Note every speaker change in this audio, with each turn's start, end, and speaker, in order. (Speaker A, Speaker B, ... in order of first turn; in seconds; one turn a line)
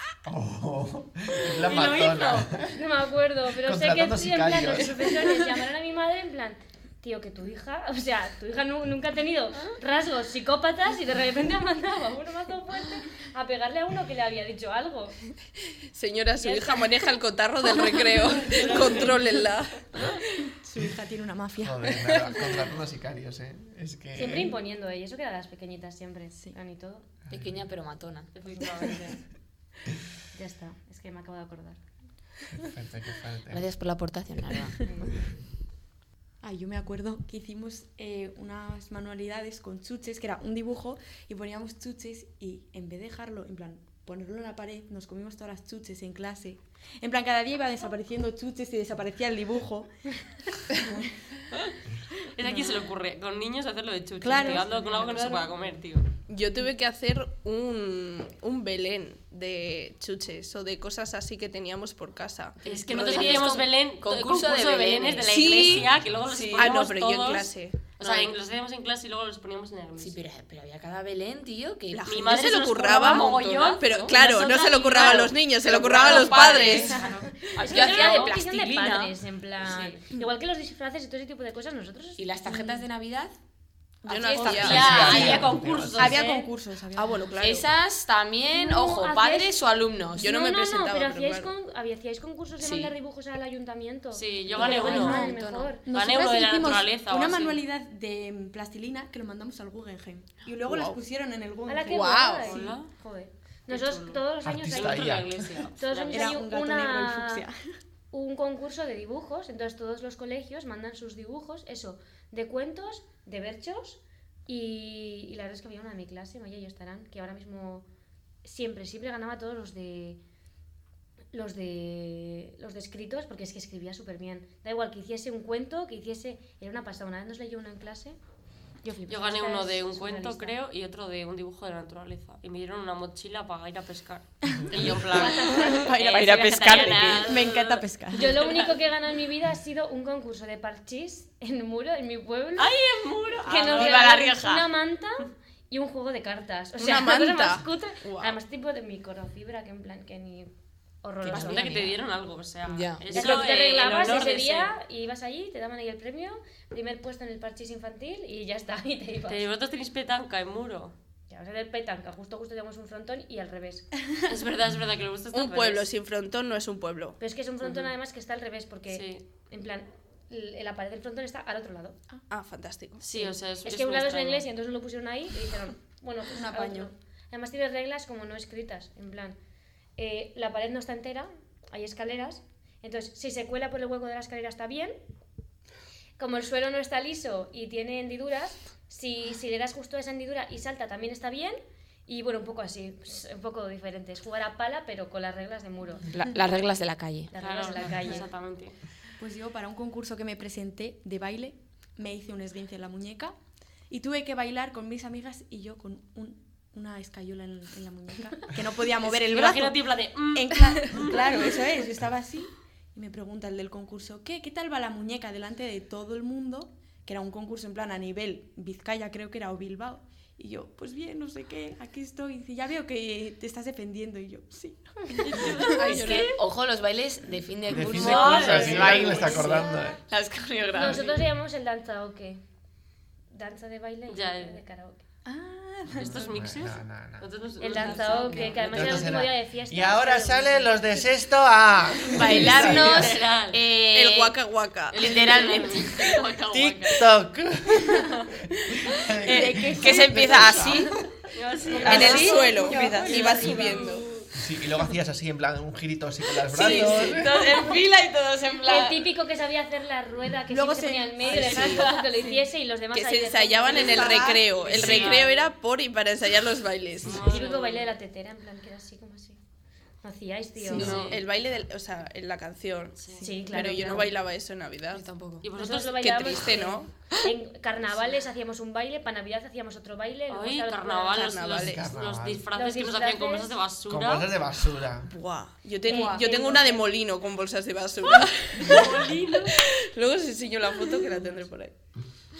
Speaker A: 0.2-2.8
Speaker B: 1.6-2.5
Speaker C: 2.7-15.2
Speaker A: 3.5-5.2
Speaker D: 15.9-20.2
Speaker C: 16.4-16.9
Speaker B: 18.4-19.4
Speaker E: 20.6-21.9
Speaker A: 21.6-24.5
Speaker C: 24.1-27.1
Speaker F: 27.3-28.3
Speaker B: 28.3-29.2
Speaker C: 30.3-31.8
Speaker A: 32.6-33.6
Speaker F: 33.5-34.7
Speaker E: 36.4-49.9
Speaker E: 50.8-51.0
Speaker B: 52.4-56.1
Speaker E: 54.2-55.4
Speaker C: 54.3-55.4
Speaker D: 56.3-62.6
Speaker F: 62.6-65.8
Speaker B: 62.6-70.2
Speaker D: 65.2-67.8
Speaker A: 65.5-66.5
Speaker F: 68.0-68.3
Speaker F: 70.0-72.2
Speaker D: 71.9-77.0
Speaker B: 72.1-75.3
Speaker F: 72.8-74.1
Speaker F: 74.9-79.2
Speaker B: 76.0-76.9
Speaker C: 76.6-82.7
Speaker E: 76.7-77.2
Speaker B: 77.7-78.3
Speaker B: 79.6-80.0
Speaker F: 82.2-83.3
Speaker E: 82.5-82.8
Speaker E: 84.0-84.5
Speaker D: 84.1-85.2
Speaker F: 84.1-85.6
Speaker B: 84.3-86.4
Speaker A: 84.4-86.2
Speaker E: 85.9-87.3
Speaker D: 86.9-87.7
Speaker F: 87.4-90.3
Speaker C: 88.5-95.8
Speaker D: 90.2-91.5
Speaker F: 92.6-92.9
Speaker B: 94.1-95.3
Speaker E: 94.6-102.4
Speaker F: 94.6-95.8
Speaker B: 95.9-97.6
Speaker D: 100.7-101.0
Speaker C: 101.7-105.2
Speaker D: 101.8-102.5
Speaker B: 102.5-102.9
Speaker B: 103.7-104.2
Speaker A: 104.4-105.5
Speaker B: 104.7-106.4
Speaker C: 105.8-107.4
Speaker E: 106.1-107.6
Speaker C: 108.1-117.8
Speaker C: 118.4-120.2
Speaker C: 121.3-128.2
Speaker C: 128.8-130.6
Speaker B: 129.1-138.7
Speaker F: 134.7-137.3
Speaker E: 134.7-136.3
Speaker C: 135.2-135.8
Speaker E: 137.2-138.4
Speaker C: 138.1-142.7
Speaker B: 142.6-144.3
Speaker C: 143.4-150.5
Speaker F: 143.5-144.6
Speaker D: 146.8-148.3
Speaker C: 151.0-151.8
Speaker B: 151.2-154.7
Speaker F: 151.2-152.0
Speaker F: 152.7-153.4
Speaker C: 153.1-159.4
Speaker B: 159.3-160.9
Speaker C: 161.3-163.9
Speaker B: 164.3-165.9
Speaker D: 165.3-167.2
Speaker C: 167.2-172.0
Speaker B: 167.6-167.9
Speaker B: 168.9-169.2
Speaker D: 172.3-173.0
Speaker B: 173.0-174.5
Speaker C: 173.2-179.4
Speaker E: 176.3-176.9
Speaker C: 180.0-184.9
Speaker C: 186.2-196.1
Speaker F: 196.1-197.3
Speaker C: 197.3-198.2
Speaker B: 197.4-198.8
Speaker E: 199.2-203.3
Speaker E: 203.9-225.8
Speaker B: 209.0-211.6
Speaker B: 225.2-226.3
Speaker D: 225.6-226.4
Speaker F: 225.8-231.1
Speaker A: 227.7-230.0
Speaker B: 227.8-229.6
Speaker C: 230.7-232.4
Speaker C: 233.3-235.1
Speaker B: 234.1-234.6
Speaker E: 235.2-236.4
Speaker B: 236.0-239.1
Speaker A: 236.1-237.3
Speaker C: 237.6-241.1
Speaker F: 237.8-238.8
Speaker A: 238.6-243.2
Speaker F: 242.1-244.3
Speaker B: 242.2-243.6
Speaker D: 243.9-245.7
Speaker F: 244.9-246.8
Speaker B: 245.0-246.7
Speaker A: 246.5-248.3
Speaker A: 248.8-251.1
Speaker E: 249.3-250.8
Speaker F: 249.3-250.9
Speaker B: 251.3-254.0
Speaker C: 251.7-252.3
Speaker E: 251.7-254.0
Speaker D: 251.8-254.1
Speaker F: 251.9-252.2
Speaker F: 252.8-253.1
Speaker A: 254.3-257.4
Speaker F: 256.5-259.1
Speaker E: 256.6-256.9
Speaker C: 258.6-264.2
Speaker E: 260.5-262.4
Speaker B: 261.2-262.1
Speaker F: 261.3-261.8
Speaker D: 262.9-267.2
Speaker E: 263.6-265.2
Speaker B: 264.6-265.3
Speaker B: 267.0-267.9
Speaker C: 267.1-269.4
Speaker C: 270.0-271.1
Speaker E: 270.6-270.9
Speaker D: 270.7-275.0
Speaker B: 270.7-271.2
Speaker A: 270.9-271.6
Speaker B: 273.0-273.2
Speaker E: 273.1-274.1
Speaker C: 273.2-274.1
Speaker F: 274.9-275.4
Speaker B: 275.4-276.4
Speaker C: 275.6-281.4
Speaker D: 276.0-276.9
Speaker B: 280.3-284.3
Speaker D: 281.1-281.9
Speaker A: 281.6-282.4
Speaker C: 282.5-283.5
Speaker A: 283.9-285.1
Speaker D: 285.1-291.7
Speaker E: 285.8-286.8
Speaker C: 285.9-286.8
Speaker B: 288.6-289.5